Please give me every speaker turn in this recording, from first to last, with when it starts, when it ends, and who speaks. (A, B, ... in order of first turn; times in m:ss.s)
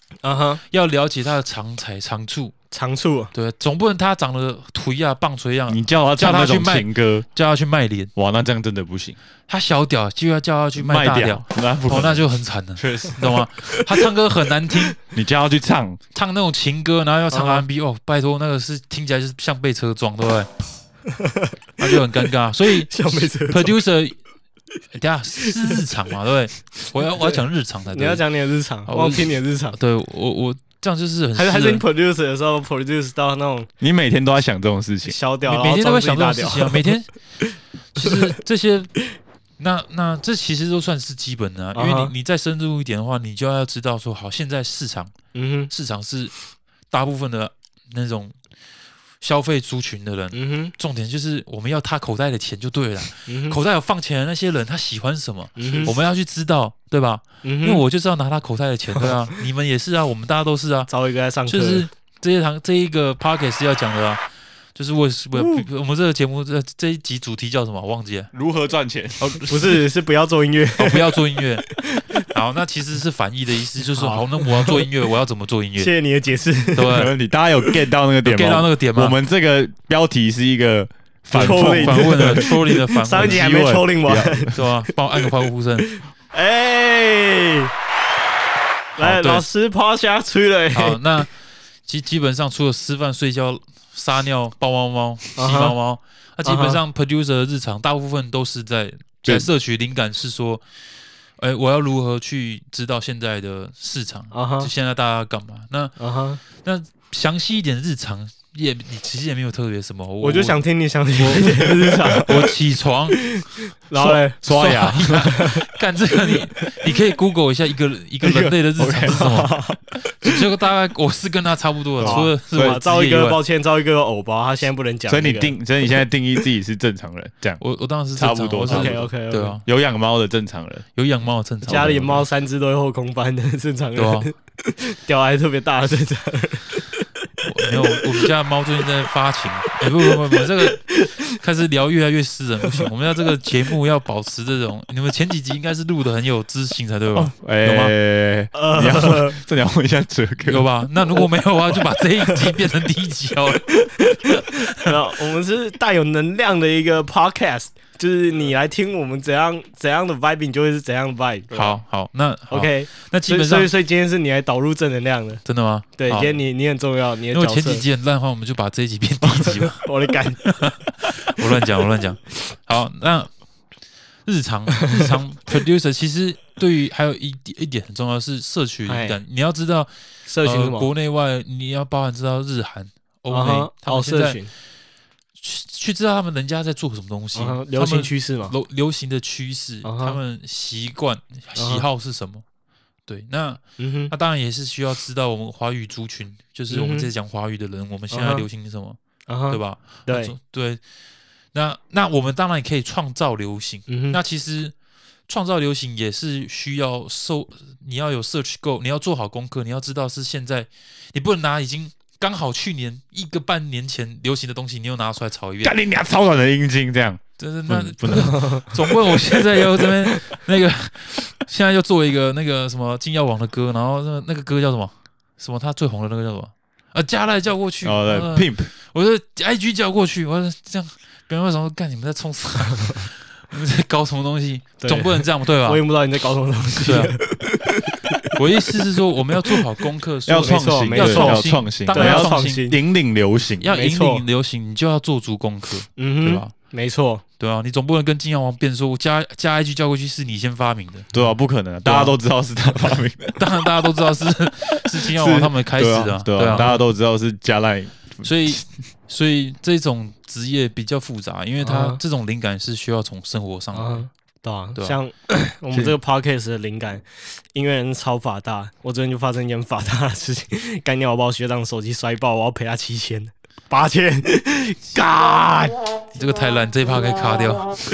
0:00.2-0:00.6 A
0:00.7-0:02.5 B
0:02.7-0:03.3 A
0:03.3-0:08.1 B
0:05.7-0:07.2 C
0:08.2-0:09.2 C
0:09.5-0:15.0 B
0:10.8-0:12.2 C
0:12.8-0:13.4 C
0:15.1-0:16.0 C
0:16.1-0:20.5 B
0:17.3-0:17.6 A
0:21.1-0:21.5 A
0:21.8-0:24.2 B
0:22.9-0:23.8 A
0:24.9-0:28.2 B
0:27.1-0:27.4 A
0:27.9-0:29.8 A
0:28.9-0:31.8 B
0:31.3-0:33.7 A
0:33.8-0:35.2 C
0:35.0-0:36.9 A
0:35.4-0:37.1 B
0:37.9-0:39.0 B
0:39.6-0:45.1 B
0:41.7-0:42.1 A
0:45.3-0:45.7 A
0:45.7-0:46.3 B
0:46.9-0:48.3 B
0:49.2-1:00.9 B
0:50.3-0:50.7 A
0:53.3-0:53.6 A
0:55.6-0:55.9 A
0:57.4-0:57.8 A
1:00.9-1:01.8 A
1:01.5-1:04.2 B
1:04.7-1:08.3 B
1:05.4-1:05.6 A
1:08.3-1:09.7 C
1:09.5-1:11.2 A
1:10.8-1:15.9 B
1:11.7-1:12.2 A
1:13.8-1:14.8 A
1:15.8-1:17.0 A
1:16.8-1:17.1 B
1:16.9-1:24.5 C
1:18.2-1:19.2 B
1:21.3-1:23.5 B
1:21.3-1:24.5 A
1:24.5-1:25.9 B
1:26.3-1:27.7 A
1:29.0-1:31.0 A
1:29.0-1:29.4 B
1:30.7-1:31.3 B
1:31.8-1:40.6 B
1:35.4-1:35.8 A
1:36.4-1:36.8 A
1:41.4-1:50.6 B
1:44.3-1:44.7 A
1:46.0-1:46.4 A
1:50.2-1:52.5 A
1:51.2-1:53.4 B
1:53.2-1:54.4 A
1:54.0-1:55.3 C
1:54.4-1:59.6 B
1:55.2-1:55.6 A
1:58.2-1:59.3 C
1:59.1-1:59.8 A
2:00.1-2:03.4 B
2:02.0-2:02.8 C
2:02.0-2:05.6 A
2:05.1-2:07.6 C
2:07.6-2:09.6 B
2:08.1-2:09.0 C
2:08.6-2:09.6 A
2:09.6-2:10.8 C
2:11.0-2:12.2 B
2:11.6-2:16.8 A
2:14.0-2:14.3 B
2:17.4-2:27.9 B
2:27.1-2:30.7 C
2:28.5-2:29.4 A
2:30.4-2:34.9 B
2:33.7-2:41.8 A
2:41.5-2:43.7 B
2:42.5-2:45.4 A
2:45.4-2:46.4 B
2:46.0-2:47.8 A
2:47.3-2:49.9 B
2:49.4-2:50.4 A
2:50.4-2:53.3 B
2:54.2-2:59.9 B
2:58.9-2:59.2 A
3:00.3-3:00.9 A
3:00.4-3:04.4 B
3:03.3-3:04.5 A
3:05.4-3:12.4 B
3:07.3-3:08.5 A
3:09.8-3:10.2 A
3:11.6-3:11.8 A
3:13.1-3:19.0 B
3:13.8-3:14.1 A
3:16.7-3:17.1 A
3:18.1-3:18.4 A
3:19.3-3:20.3 A
3:19.5-3:20.8 B
3:21.5-3:24.7 B
3:23.9-3:24.2 A
3:25.3-3:35.7 B
3:35.6-3:38.4 C
3:37.4-3:55.8 B
3:38.2-3:38.6 A
3:47.8-3:48.7 C
3:54.8-3:58.4 A
3:56.8-3:57.2 B
3:58.3-4:02.8 B
4:00.2-4:03.7 C
4:00.4-4:02.8 A
4:03.6-4:06.5 B
4:03.7-4:04.2 A
4:06.0-4:07.2 A
4:07.4-4:11.1 B
4:11.1-4:13.5 C
4:13.4-4:16.8 B
4:15.0-4:18.6 C
4:18.2-4:24.0 B
4:21.6-4:22.0 A
4:23.7-4:35.8 A
4:36.1-4:37.7 B